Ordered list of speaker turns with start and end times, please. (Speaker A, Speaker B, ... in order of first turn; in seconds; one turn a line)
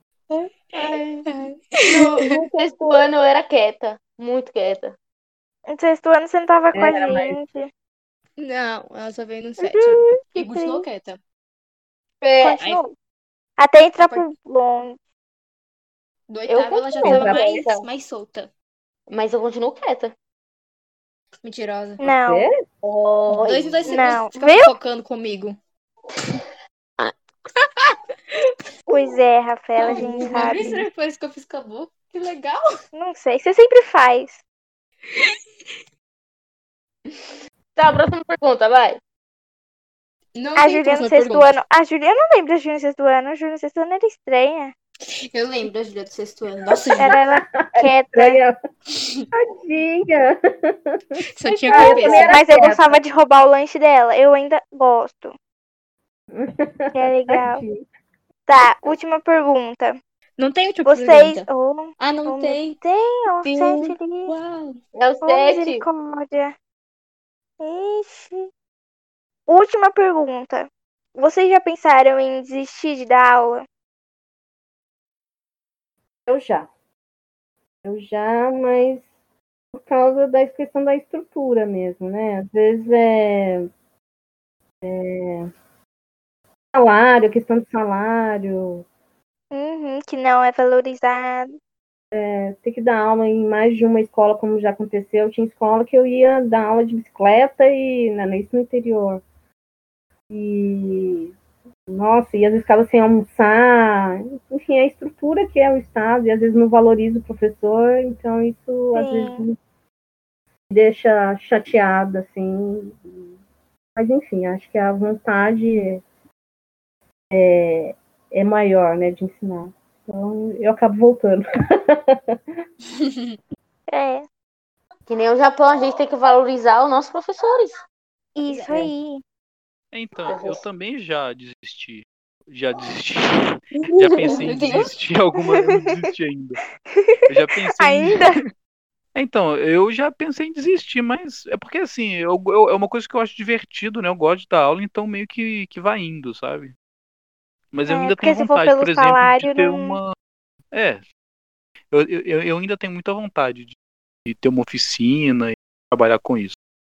Speaker A: 0.4-2.4
Speaker B: 0.7-1.2
Speaker B: 1.9-5.0
Speaker C: 5.7-7.7
Speaker D: 6.7-7.4
Speaker A: 8.4-11.2
Speaker C: 9.6-10.8
Speaker A: 12.2-12.8
Speaker C: 12.4-12.9
Speaker C: 13.6-15.0
Speaker A: 14.0-14.3
Speaker A: 16.3-18.5
Speaker B: 16.5-17.8
Speaker D: 17.0-17.4
Speaker B: 19.1-20.1
Speaker A: 21.4-22.0
Speaker C: 22.0-22.5
Speaker D: 22.0-22.6
Speaker B: 22.8-24.1
Speaker A: 23.3-25.6
Speaker C: 23.9-24.7
Speaker A: 27.0-28.5
Speaker C: 28.9-30.8
Speaker A: 29.8-32.6
Speaker D: 29.9-30.8
Speaker C: 32.9-34.4
Speaker A: 35.1-35.4
Speaker B: 37.8-39.0
Speaker A: 40.3-41.5
Speaker C: 40.5-44.7
Speaker A: 45.1-47.2
Speaker D: 46.9-48.5
Speaker C: 47.0-48.4
Speaker A: 48.9-49.3
Speaker D: 49.3-53.0
Speaker A: 51.2-52.4
Speaker C: 51.7-55.3
Speaker D: 56.3-57.8
Speaker C: 56.9-57.6
Speaker C: 58.5-60.0
Speaker A: 60.4-61.5
Speaker C: 60.8-64.3
Speaker A: 62.0-62.8
Speaker A: 63.4-64.8
Speaker B: 64.9-65.8
Speaker C: 65.2-66.5
Speaker C: 67.6-68.5
Speaker C: 69.5-73.7
Speaker D: 76.3-76.7
Speaker D: 77.8-79.1
Speaker D: 79.7-83.7
Speaker D: 84.8-85.5
Speaker D: 86.7-88.8
Speaker C: 89.5-91.5
Speaker D: 92.1-99.2
Speaker D: 100.3-101.3
Speaker D: 101.9-109.5
Speaker C: 108.9-109.5
Speaker D: 110.7-113.1
Speaker D: 113.9-116.0
Speaker D: 117.3-122.4
Speaker A: 123.0-123.3
Speaker C: 123.9-124.2
Speaker B: 125.1-127.8
Speaker C: 128.3-129.2
Speaker D: 128.5-128.9
Speaker E: 129.9-136.6
Speaker B: 130.2-130.6
Speaker A: 134.1-134.9
Speaker E: 137.3-138.4
Speaker C: 137.7-138.4
Speaker E: 139.1-146.7
Speaker E: 147.7-150.1
Speaker C: 147.9-150.0
Speaker E: 150.7-151.0
Speaker E: 151.9-153.7
Speaker E: 154.2-156.6